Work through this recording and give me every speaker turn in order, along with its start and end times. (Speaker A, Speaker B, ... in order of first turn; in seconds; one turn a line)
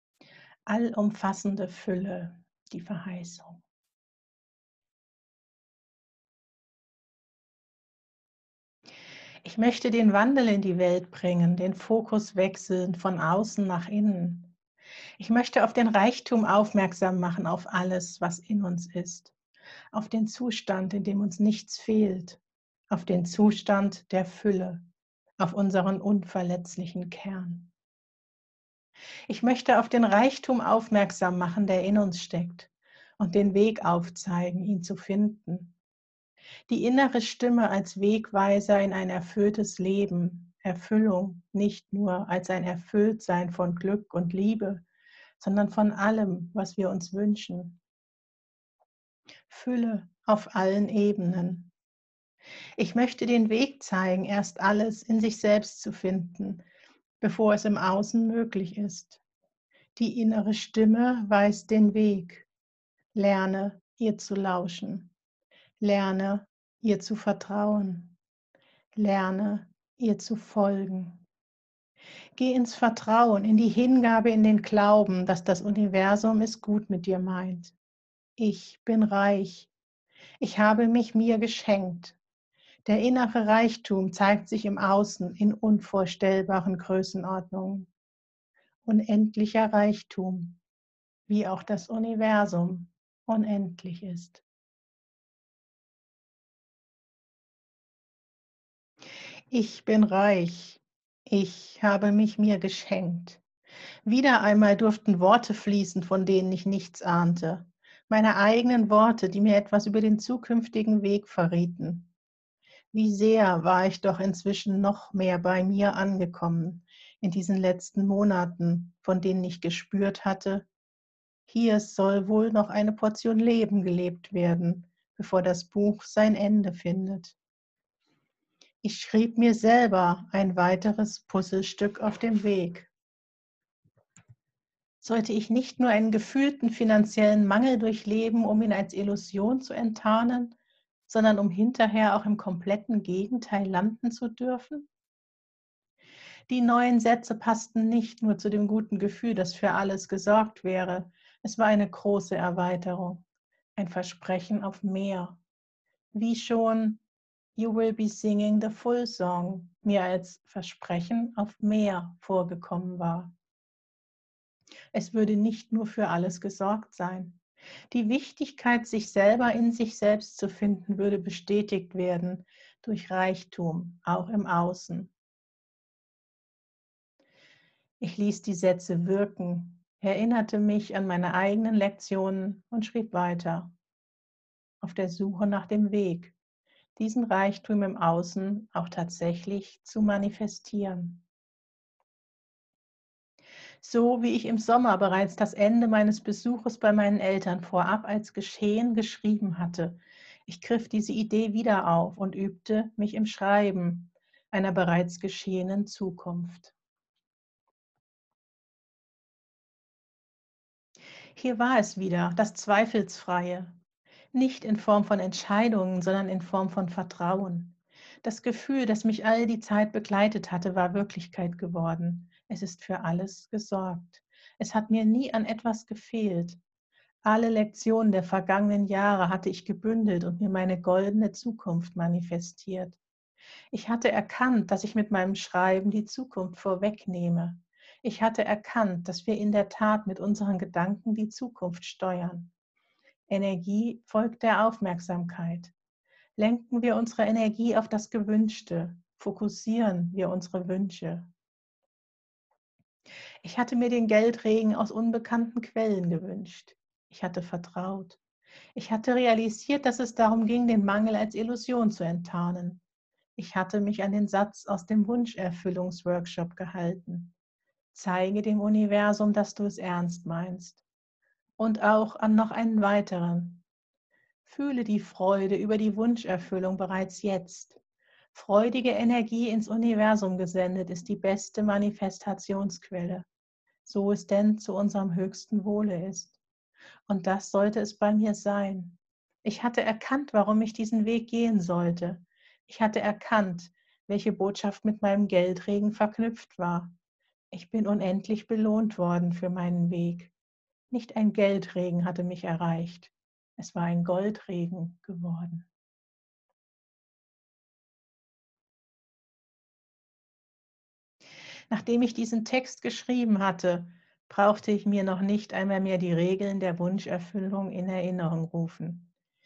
Speaker A: 0.7-3.6
Speaker A: 9.4-14.5
Speaker A: 15.2-19.3
Speaker A: 19.9-24.9
Speaker A: 25.4-27.7
Speaker A: 29.3-35.8
Speaker A: 36.7-44.9
Speaker A: 45.4-47.8
Speaker A: 49.5-51.7
Speaker A: 52.8-56.6
Speaker A: 57.2-59.2
Speaker A: 59.9-62.5
Speaker A: 63.1-65.1
Speaker A: 65.8-68.2
Speaker A: 68.9-71.2
Speaker A: 72.3-77.7
Speaker A: 78.4-79.7
Speaker A: 80.4-82.2
Speaker A: 82.8-87.9
Speaker A: 88.8-90.6
Speaker A: 91.3-94.4
Speaker A: 99.5-103.4
Speaker A: 104.0-112.1
Speaker A: 112.9-120.7
Speaker A: 121.5-127.4
Speaker A: 128.8-132.9
Speaker A: 135.0-140.6
Speaker A: 141.1-144.9
Speaker A: 146.5-153.2
Speaker A: 153.8-155.4
Speaker A: 156.1-157.0
Speaker A: 157.6-163.3
Speaker A: 164.9-175.1
Speaker A: 178.0-183.7
Speaker A: 184.8-186.4
Speaker A: 187.0-191.3
Speaker A: 193.8-206.7
Speaker A: 211.3-213.8
Speaker A: 214.3-226.6
Speaker A: 227.2-233.0
Speaker A: 233.7-242.5
Speaker A: 243.3-245.7
Speaker A: 246.4-251.3
Speaker A: 253.4-258.2
Speaker A: 258.8-262.8
Speaker A: 263.4-267.3
Speaker A: 267.9-270.8
Speaker A: 271.6-273.6
Speaker A: 274.4-277.8
Speaker A: 278.3-283.3
Speaker A: 283.8-286.4
Speaker A: 287.1-296.9
Speaker A: 297.5-300.3
Speaker A: 300.9-305.7
Speaker A: 311.7-319.1